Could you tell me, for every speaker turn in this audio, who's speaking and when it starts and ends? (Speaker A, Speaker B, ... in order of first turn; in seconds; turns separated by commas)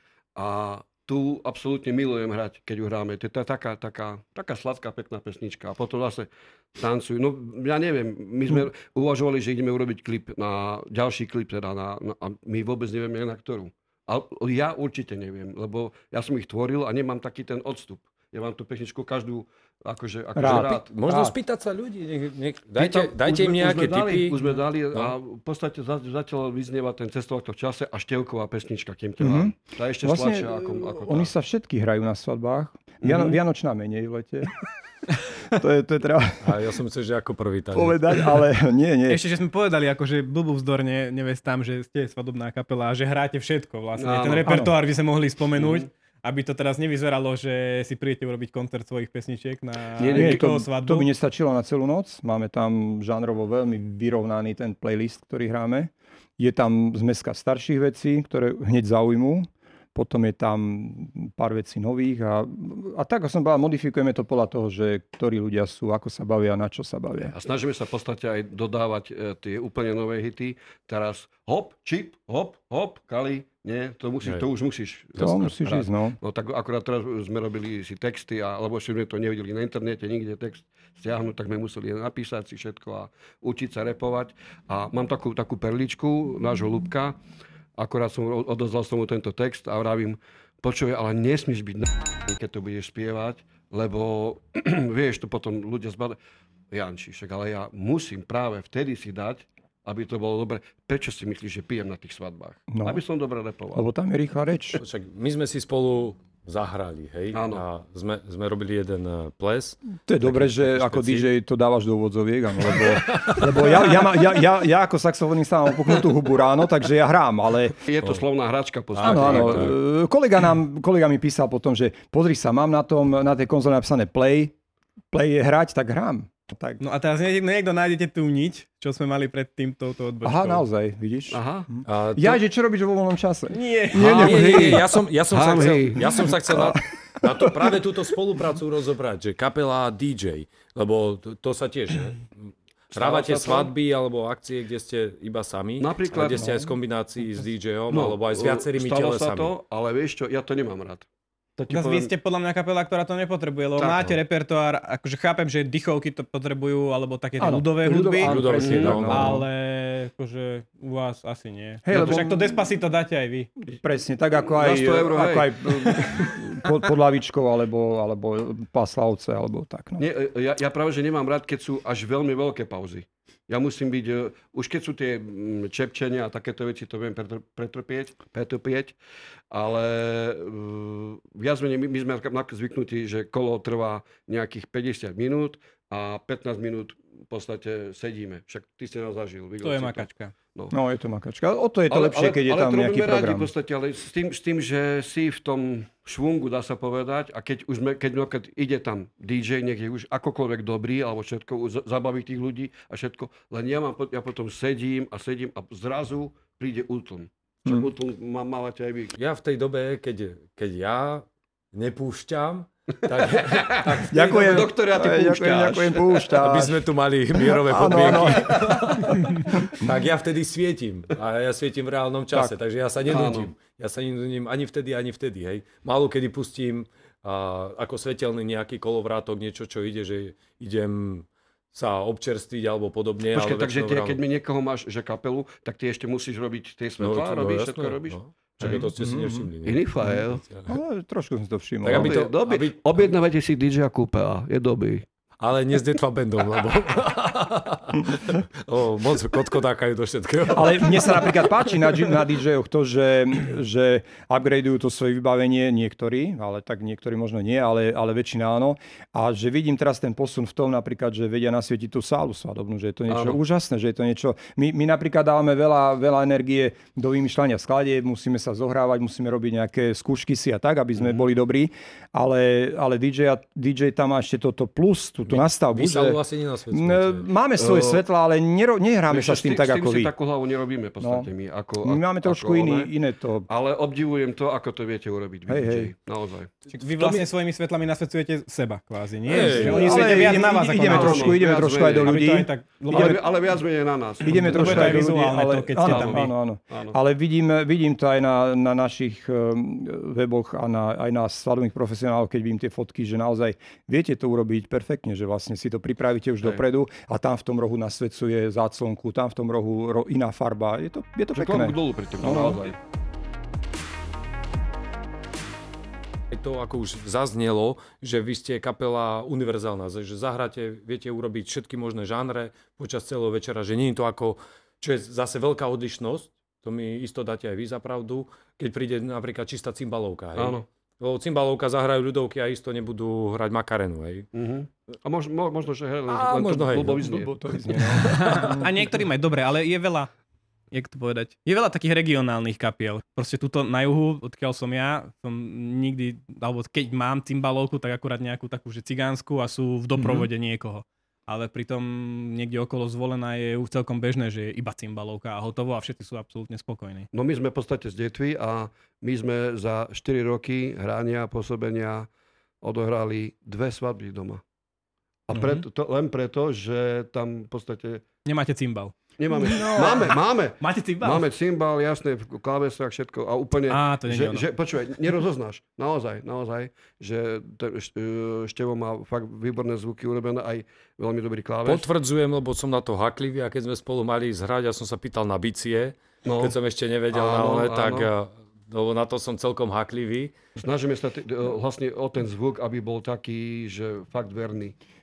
Speaker A: 0.3-20.9, Speaker B: 20.3-21.3, Speaker C: 20.4-24.4, Speaker A: 22.8-31.3, Speaker B: 29.2-34.6, Speaker A: 33.0-33.4, Speaker B: 35.4-36.6, Speaker C: 36.4-38.2, Speaker B: 37.7-39.2, Speaker D: 39.1-51.1, Speaker A: 44.0-44.5, Speaker B: 44.5-44.8, Speaker A: 45.6-45.9, Speaker A: 50.0-50.5, Speaker B: 50.1-67.3, Speaker A: 67.3-87.2, Speaker B: 75.2-76.2, Speaker A: 87.8-96.2, Speaker A: 96.7-103.8, Speaker B: 102.7-103.0, Speaker B: 103.7-104.8, Speaker C: 104.8-111.3, Speaker A: 107.3-107.6, Speaker B: 110.1-117.8, Speaker C: 112.6-113.8, Speaker A: 117.8-119.7, Speaker C: 118.9-119.8, Speaker B: 119.0-124.5, Speaker B: 125.1-126.8, Speaker D: 126.8-130.6, Speaker B: 130.2-134.8, Speaker A: 131.3-131.7, Speaker C: 131.8-132.4, Speaker D: 133.5-134.5, Speaker C: 133.9-149.5, Speaker A: 134.0-136.3, Speaker B: 136.0-137.7, Speaker A: 142.9-143.7, Speaker A: 145.8-146.5, Speaker B: 146.4-146.7, Speaker A: 147.9-152.1, Speaker D: 151.7-163.5, Speaker C: 153.9-154.2, Speaker B: 157.4-159.4, Speaker A: 157.9-159.0, Speaker C: 158.2-159.4, Speaker B: 161.8-162.7, Speaker B: 163.7-170.0, Speaker A: 164.5-166.0, Speaker A: 170.0-178.9, Speaker A: 179.5-190.7, Speaker D: 189.6-190.3, Speaker B: 190.7-193.5, Speaker A: 191.9-209.1, Speaker C: 209.2-214.7, Speaker A: 213.2-216.4, Speaker B: 214.1-216.8, Speaker C: 216.4-234.2, Speaker B: 217.4-219.7, Speaker A: 218.5-218.7, Speaker A: 223.1-223.5, Speaker A: 233.3-238.9, Speaker C: 237.0-240.7, Speaker B: 238.6-239.5, Speaker A: 239.6-240.4, Speaker B: 240.0-242.2, Speaker C: 241.8-243.0, Speaker A: 241.9-245.0, Speaker C: 245.4-251.4, Speaker B: 250.5-276.2, Speaker A: 263.1-263.4, Speaker A: 270.9-271.2, Speaker C: 275.3-277.3, Speaker B: 276.7-280.1, Speaker A: 277.6-278.0, Speaker A: 279.1-282.9, Speaker B: 281.0-281.3, Speaker B: 281.8-283.5, Speaker A: 283.5-286.5, Speaker B: 285.5-285.9, Speaker D: 286.7-293.2, Speaker C: 286.8-287.2, Speaker C: 289.3-290.0, Speaker B: 289.3-293.2, Speaker A: 289.8-292.1, Speaker A: 292.8-295.1, Speaker D: 294.2-296.3, Speaker B: 294.2-312.6, Speaker A: 295.8-296.9, Speaker A: 311.3-312.8, Speaker C: 316.3-334.3, Speaker A: 330.4-330.6, Speaker A: 334.3-338.3, Speaker C: 336.1-337.1, Speaker B: 337.0-338.9, Speaker D: 338.0-340.1, Speaker D: 340.7-357.1, Speaker B: 349.9-350.3, Speaker A: 357.1-362.1, Speaker A: 362.6-364.4, Speaker A: 365.3-368.0, Speaker D: 365.3-365.6, Speaker D: 368.2-371.2, Speaker A: 369.2-381.9, Speaker B: 369.4-370.1, Speaker D: 373.7-374.5, Speaker C: 381.6-390.3, Speaker A: 386.2-386.5, Speaker A: 387.1-388.1, Speaker A: 390.6-394.8